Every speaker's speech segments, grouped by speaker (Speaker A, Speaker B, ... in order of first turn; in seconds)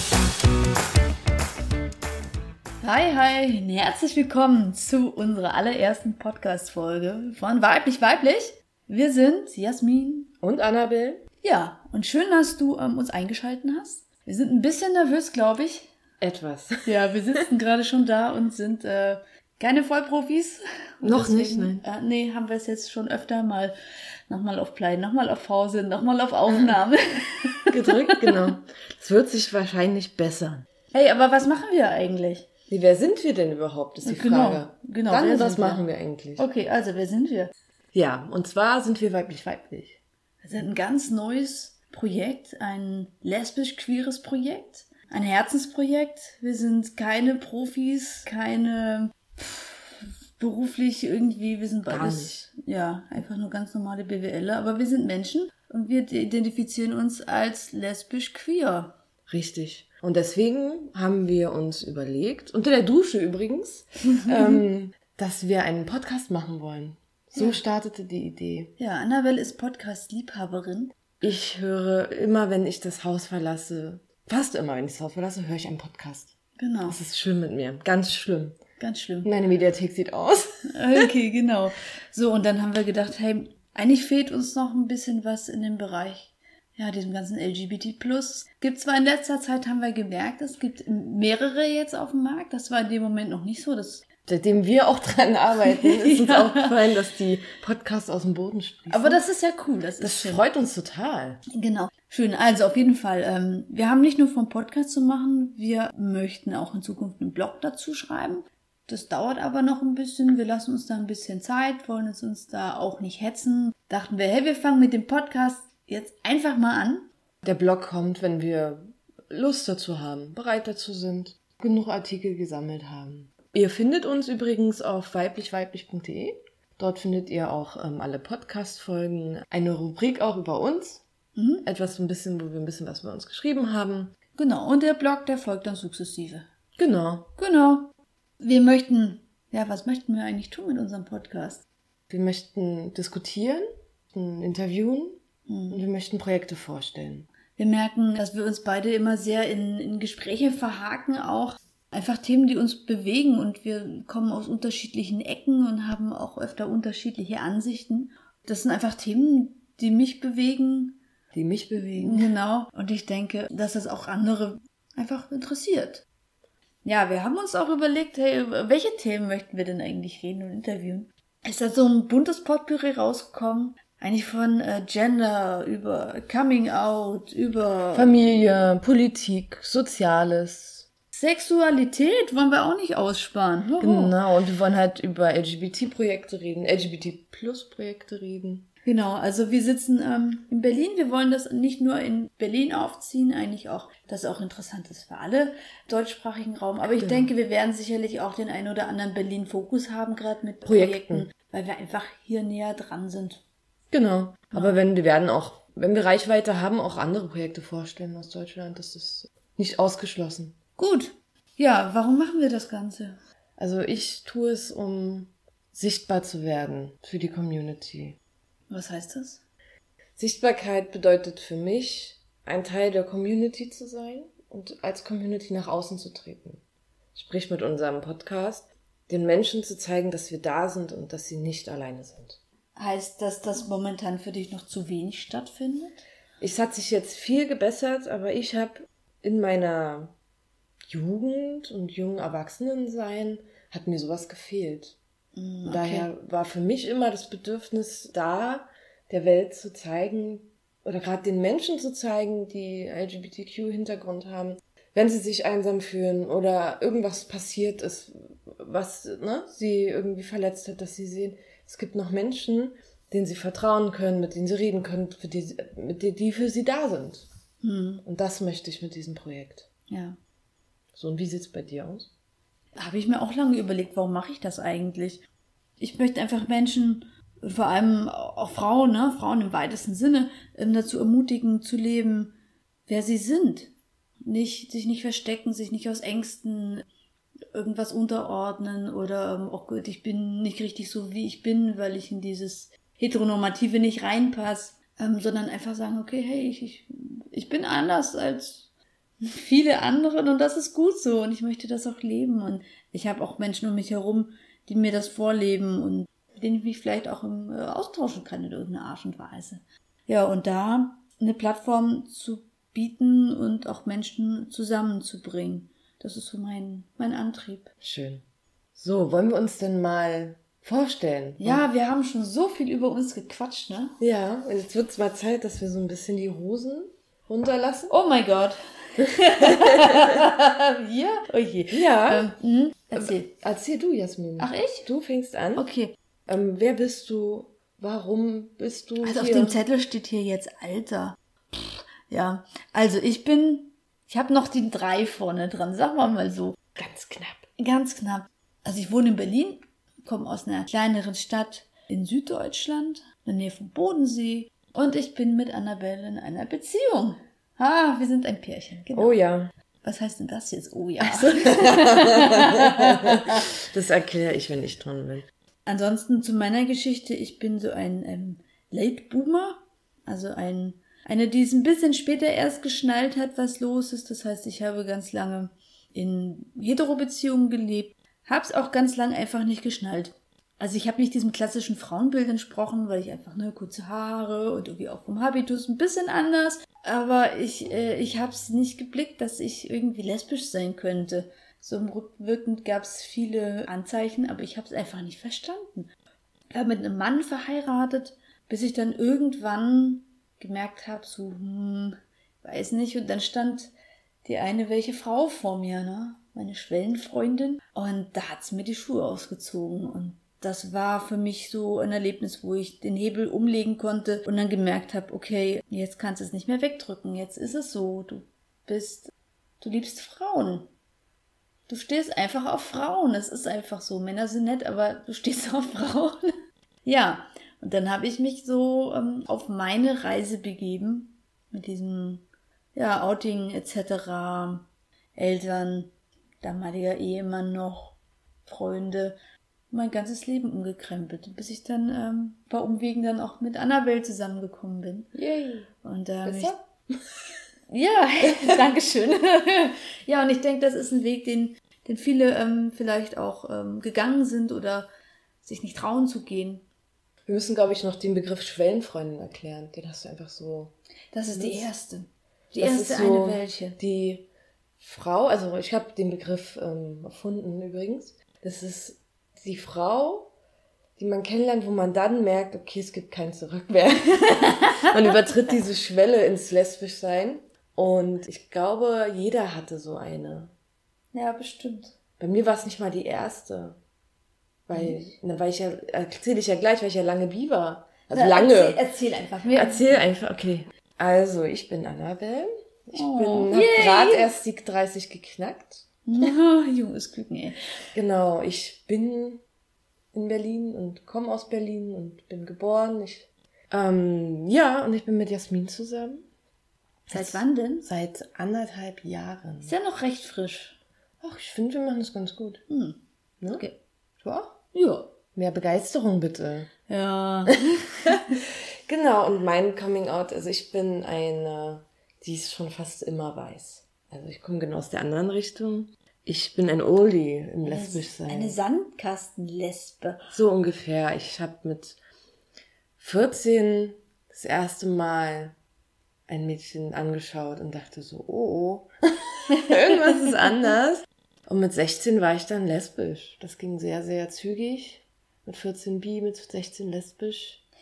Speaker A: 2.8-10.3, 11.4-15.9, 16.9-23.7, 24.3-28.5, 30.9-32.5, 34.0-35.8, 36.4-37.5, 40.4-58.9, 64.3-64.5, 67.3-67.6, 68.8-70.9, 76.6-77.0, 78.8-79.3, 80.7-94.0, 95.6-96.7, 98.9-100.4, 101.5-117.1, 131.3-131.6, 134.4-136.4, 137.4-141.6, 145.5-145.8, 147.6-161.0, 161.8-166.1, 166.8-178.6, 181.1-184.2, 188.8-203.4, 210.8-213.2, 218.7-219.4, 232.8-236.1, 245.3-246.1, 267.6-268.0, 269.9-270.2, 272.8-275.2, 275.8-282.4, 282.9-283.7, 284.2-286.9, 287.5-298.7, 299.2-317.7, 321.4-324.0, 327.9-333.3, 334.4-334.9, 335.6-335.9, 339.0-346.6, 347.6-359.2, 359.8-363.4, 365.6-395.9, 396.5-403.7, 404.2-420.7, 421.7-426.3, 426.8-439.2, 439.7-445.1, 445.8-446.5, 447.7-454.9, 455.4-456.6, 461.1-463.8, 481.1-481.9, 488.1-490.0, 492.9-494.3, 496.1-497.6, 507.1-507.9, 509.6-510.8, 512.7-513.0, 513.5-515.0, 516.9-518.4, 527.6-530.3
Speaker B: 10.4-11.2, 16.2-17.4, 21.0-21.8, 27.7-30.6, 32.7-36.5, 37.9-40.0, 51.9-52.4, 59.3-68.7, 71.2-76.3, 76.9-78.6, 79.2-81.1, 94.3-99.2, 100.0-101.4, 117.4-131.0, 131.6-134.1, 136.8-137.3, 142.1-145.2, 145.7-147.3, 161.3-162.3, 177.9-180.8, 183.8-188.7, 196.9-197.3, 200.6-201.3, 203.9-210.6, 213.6-218.2, 220.2-226.6, 227.1-232.4, 236.4-240.1, 240.9-245.0, 245.6-267.3, 268.0-269.7, 270.9-272.1, 317.8-318.2, 318.7-321.6, 324.0-327.9, 331.7-332.3, 332.9-335.6, 336.3-339.6, 346.8-347.5, 358.9-359.5, 361.0-365.2, 445.1-445.7, 446.2-446.6, 457.3-460.7, 461.3-461.7, 462.6-470.3, 471.0-480.5, 482.2-483.8, 484.7-488.8, 489.5-496.3, 497.9-499.4, 500.1-506.2, 507.1-509.7, 511.2-512.6, 514.2-514.5, 515.3-516.7, 518.9-528.6, 530.3-532.0, 533.0-535.5, 536.3-547.6